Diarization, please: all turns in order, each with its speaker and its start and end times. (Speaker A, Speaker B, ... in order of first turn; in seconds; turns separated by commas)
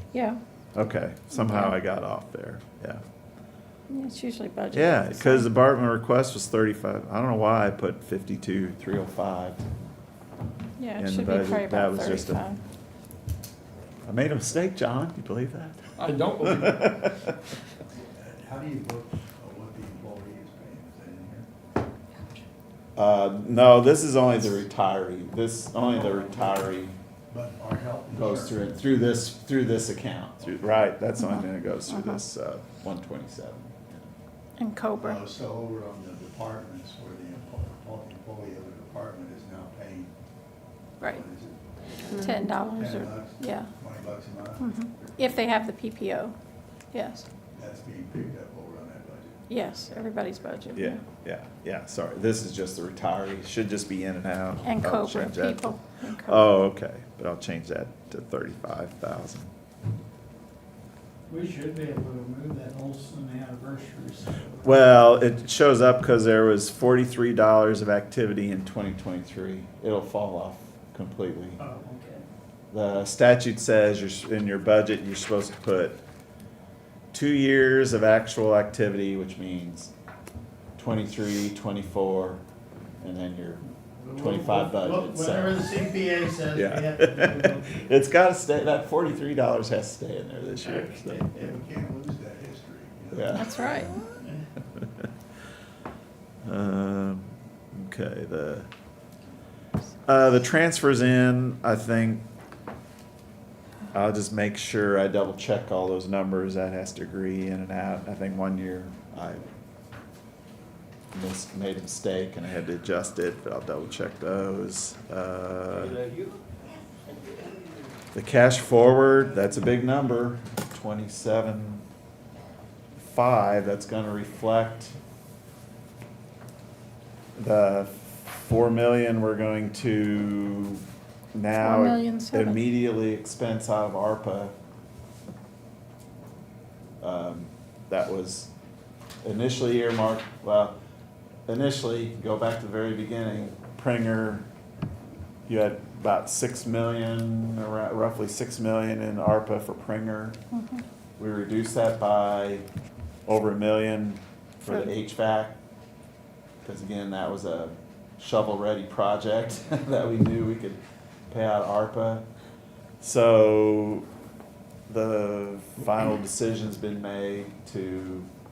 Speaker A: 0.1-0.4, Speaker B: 0.7-3.0, Speaker A: 1.4-1.7, Speaker A: 3.9-5.5, Speaker B: 4.7-9.6, Speaker A: 10.8-12.6, Speaker B: 11.0-12.5, Speaker B: 14.1-17.4, Speaker C: 16.0-16.9, Speaker D: 18.1-21.5, Speaker B: 22.9-26.9, Speaker D: 25.8-26.7, Speaker D: 27.3-28.6, Speaker B: 28.1-34.1, Speaker D: 30.4-30.8, Speaker A: 31.2-32.2, Speaker A: 34.6-35.2, Speaker D: 35.0-40.1, Speaker D: 41.0-45.4, Speaker A: 42.1-43.7, Speaker A: 44.6-46.3, Speaker A: 46.9-47.3, Speaker D: 47.5-49.5, Speaker A: 49.5-51.0, Speaker B: 50.7-59.5, Speaker A: 54.6-56.5, Speaker C: 61.3-64.6, Speaker B: 64.6-71.6, Speaker C: 71.6-72.2, Speaker B: 72.7-76.0, Speaker B: 77.1-79.9, Speaker B: 80.8-82.4, Speaker B: 83.0-85.8, Speaker C: 84.0-87.9, Speaker B: 86.5-91.3, Speaker C: 91.0-91.3, Speaker D: 91.2-93.6, Speaker B: 93.1-94.0, Speaker A: 93.3-94.0, Speaker B: 94.7-95.1, Speaker B: 96.4-98.7, Speaker B: 100.0-102.2, Speaker B: 103.9-109.5, Speaker B: 111.1-116.0, Speaker B: 118.1-121.8, Speaker B: 123.0-125.0, Speaker B: 127.4-134.5, Speaker A: 131.6-132.7, Speaker B: 137.0-138.5, Speaker B: 139.2-140.8, Speaker B: 141.5-144.5, Speaker B: 145.5-150.4, Speaker A: 150.5-150.8, Speaker B: 151.2-152.7, Speaker B: 153.3-155.6, Speaker B: 156.6-162.3, Speaker B: 163.0-164.1, Speaker B: 164.9-168.3